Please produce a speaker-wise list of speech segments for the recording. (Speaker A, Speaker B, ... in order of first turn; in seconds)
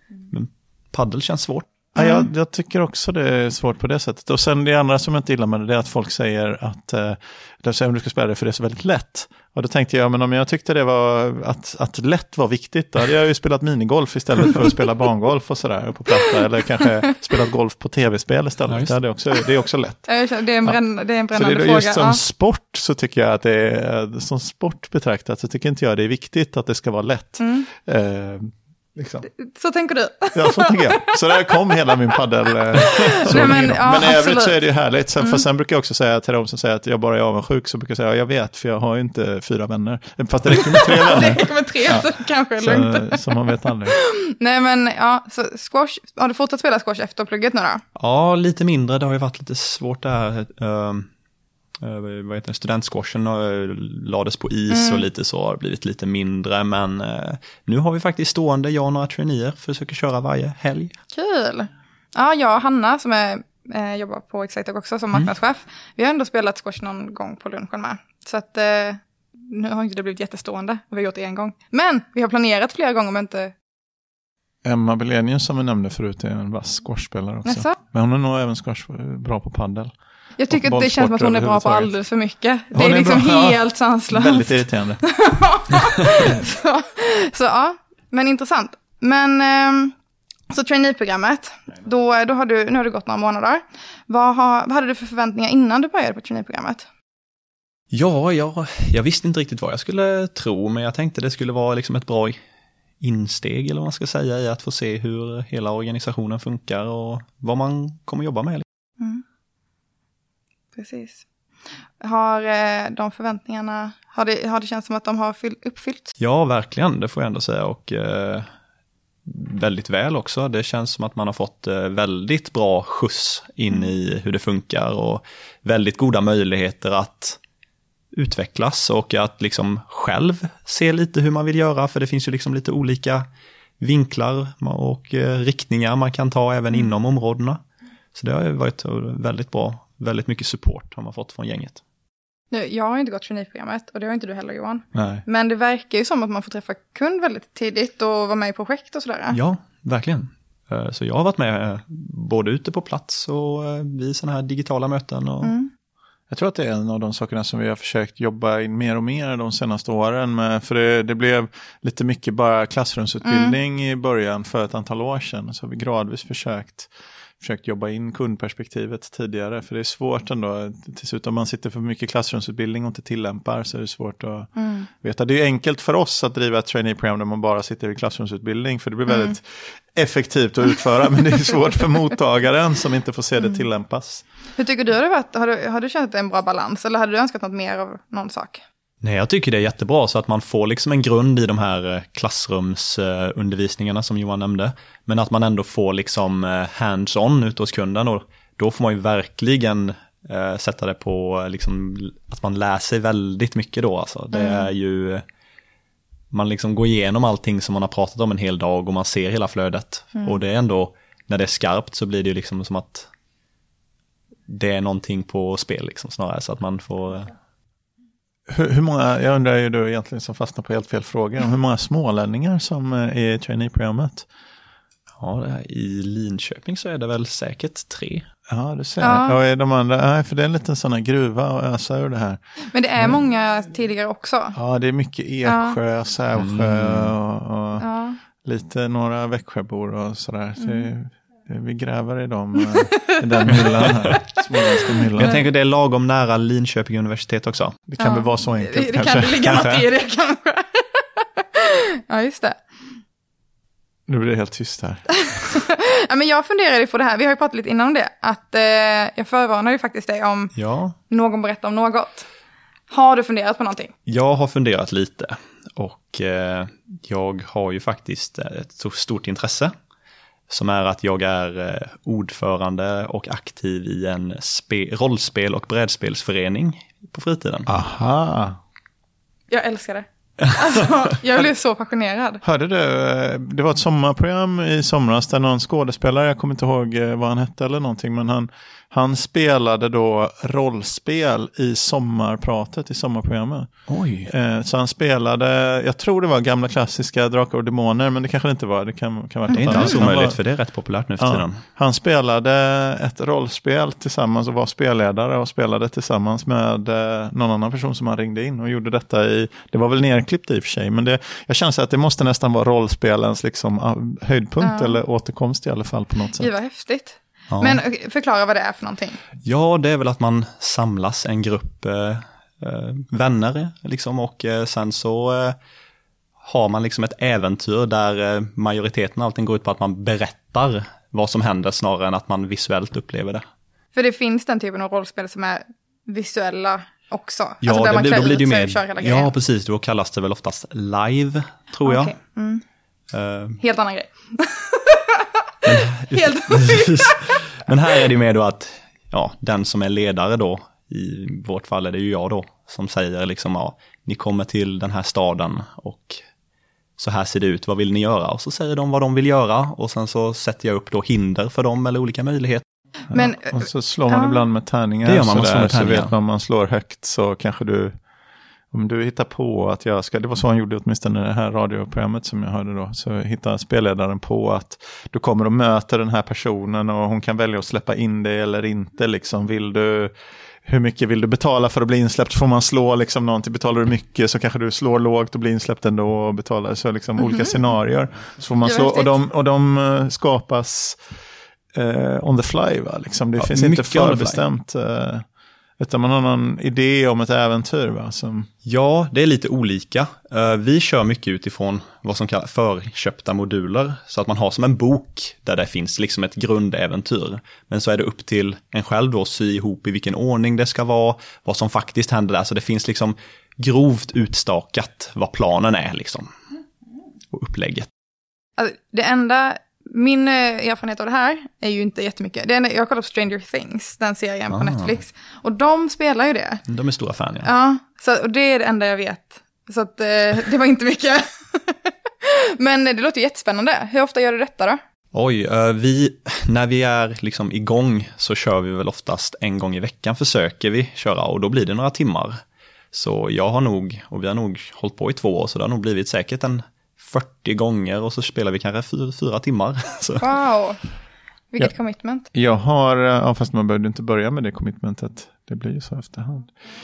Speaker A: 0.3-1.7, 18.7-19.0, 48.0-51.1, 51.8-61.0, 97.9-102.4, 103.0-108.6, 116.2-118.5, 119.2-127.4, 128.1-133.2, 133.8-137.6, 138.1-141.8, 149.3-155.5, 189.0-205.2, 206.3-213.1, 214.5-217.3, 225.2-228.2, 236.3-237.1, 243.5-244.2, 245.2-247.8, 249.4-249.8, 260.5-260.9, 264.1-269.7, 270.5-277.7, 293.9-294.3, 299.5-301.6, 317.5-317.8, 319.4-325.6, 326.4-333.4, 337.6-342.1, 343.1-343.6, 345.6-356.2, 357.0-362.6, 365.0-366.1, 393.4-394.4, 398.6-416.3, 417.3-417.9, 424.5-425.0, 426.7-427.5, 435.1-442.4, 442.9-450.3
Speaker B: 1.9-20.8, 21.3-29.3, 30.3-44.0, 74.6-79.9, 80.5-81.9, 82.7-85.0, 144.9-145.2, 156.3-184.2, 218.5-224.2, 228.5-232.4, 234.5-237.8, 238.4-245.4, 247.9-249.4, 254.1-255.1, 277.7-278.6, 282.4-293.7, 294.3-300.4, 301.2-316.5, 363.1-367.9, 368.7-380.1, 380.6-391.0, 391.7-395.2, 395.8-398.5, 452.3-456.5
Speaker C: 2.0-2.3, 20.1-22.2, 27.4-27.7, 29.3-32.1, 32.7-34.6, 35.2-35.4, 40.5-47.8, 54.7-55.1, 61.1-73.5, 77.4-77.8, 80.4-89.9, 90.5-96.8, 110.7-111.2, 112.0-116.1, 142.5-149.4, 155.4-155.7, 163.2-163.6, 174.6-174.9, 179.1-179.3, 184.6-188.6, 204.3-204.7, 229.0-229.4, 232.7-234.6, 235.4-235.8, 237.8-238.2, 240.6-240.9, 242.6-243.7, 248.0-252.6, 255.2-260.5, 261.1-262.3, 262.9-263.9, 279.5-282.4, 299.5-299.9, 314.6-315.0, 316.4-319.2, 333.9-339.3, 341.8-342.6, 343.6-345.3, 346.1-347.2, 363.1-363.5, 364.1-364.4, 387.2-387.7, 388.6-389.1, 418.6-426.6, 427.4-434.8, 450.2-450.8, 451.5-452.2